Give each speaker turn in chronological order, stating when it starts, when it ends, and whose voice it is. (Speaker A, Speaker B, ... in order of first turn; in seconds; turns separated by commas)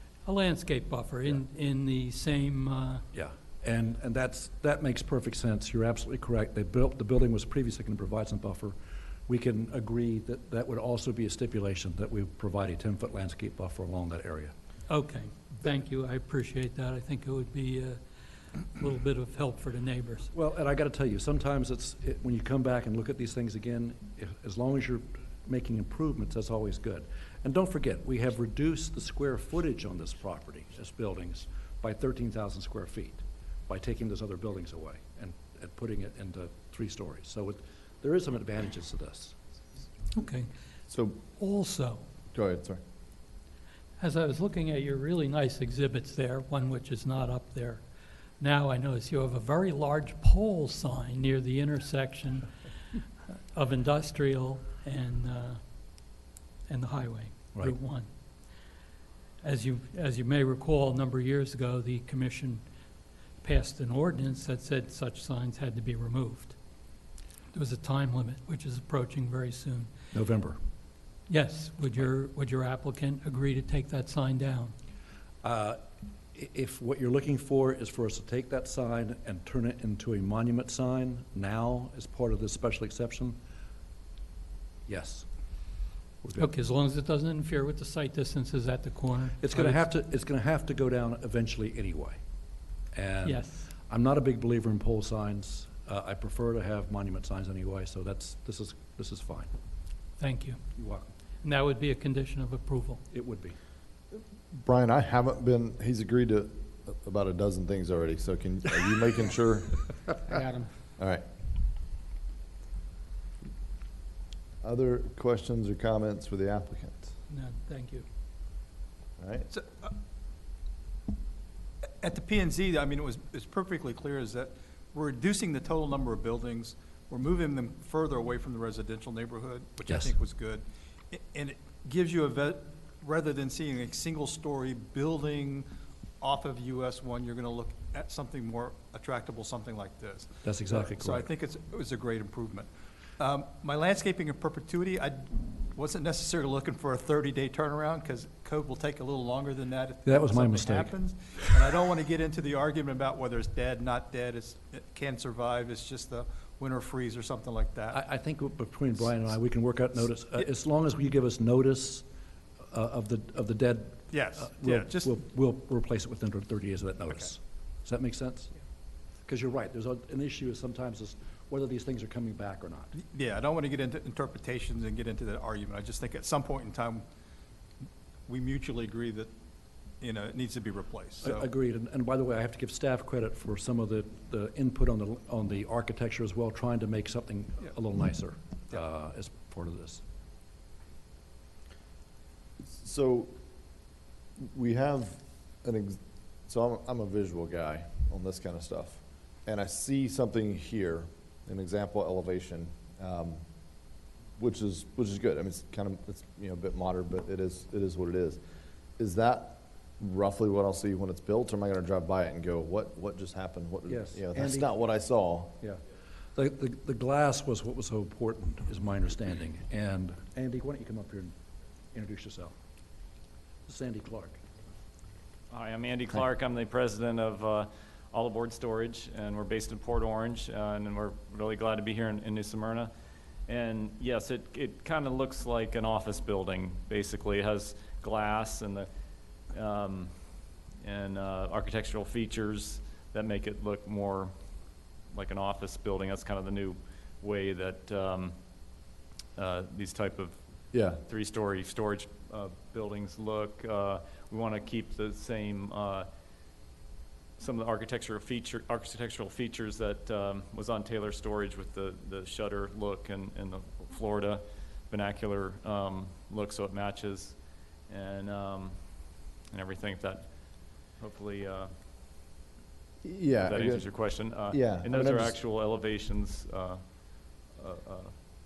Speaker A: 0.3-3.0, Speaker B: 3.1-8.8, Speaker B: 9.3-14.5, Speaker A: 14.9-18.0, Speaker A: 18.6-20.3, Speaker B: 20.3-39.4, Speaker A: 40.1-40.5, Speaker C: 40.9-41.2, Speaker A: 41.4-42.0, Speaker C: 42.3-42.8, Speaker A: 44.0-47.8, Speaker A: 48.4-53.0, Speaker A: 53.5-55.6, Speaker A: 56.7-58.1, Speaker A: 59.4-62.6, Speaker A: 63.4-66.6, Speaker A: 67.5-69.9, Speaker B: 70.1-70.6, Speaker A: 71.3-74.7, Speaker B: 75.4-83.4, Speaker B: 84.9-85.3, Speaker B: 86.2-86.5, Speaker A: 86.3-89.8, Speaker B: 89.4-92.2, Speaker B: 92.9-99.5, Speaker A: 93.2-93.7, Speaker A: 100.2-100.8, Speaker B: 100.8-101.1, Speaker A: 101.4-103.0, Speaker B: 103.1-103.6, Speaker C: 104.5-110.3, Speaker C: 111.0-111.2, Speaker C: 114.6-117.2, Speaker A: 117.3-118.0, Speaker C: 119.2-119.5, Speaker D: 119.5-120.0, Speaker D: 122.0-135.7, Speaker B: 129.9-130.1, Speaker D: 136.2-158.0, Speaker B: 140.4-141.3, Speaker B: 150.1-150.9, Speaker B: 157.9-162.1, Speaker B: 162.7-168.5, Speaker D: 164.1-165.1, Speaker B: 169.3-172.9, Speaker D: 172.9-177.1, Speaker D: 178.3-179.3, Speaker D: 180.0-181.5, Speaker B: 181.2-190.0, Speaker C: 192.7-193.4, Speaker C: 194.4-203.4, Speaker C: 204.4-208.4, Speaker C: 209.0-215.6, Speaker B: 213.9-214.7, Speaker B: 216.3-221.4, Speaker B: 221.9-222.6, Speaker B: 223.7-224.4, Speaker E: 225.5-232.9, Speaker E: 233.5-238.9, Speaker E: 239.5-240.1, Speaker E: 240.8-244.3, Speaker E: 245.1-248.4, Speaker E: 249.4-256.1, Speaker C: 250.7-251.0, Speaker E: 257.4-271.7, Speaker C: 273.0-275.4, Speaker E: 273.4-276.8, Speaker E: 277.4-278.1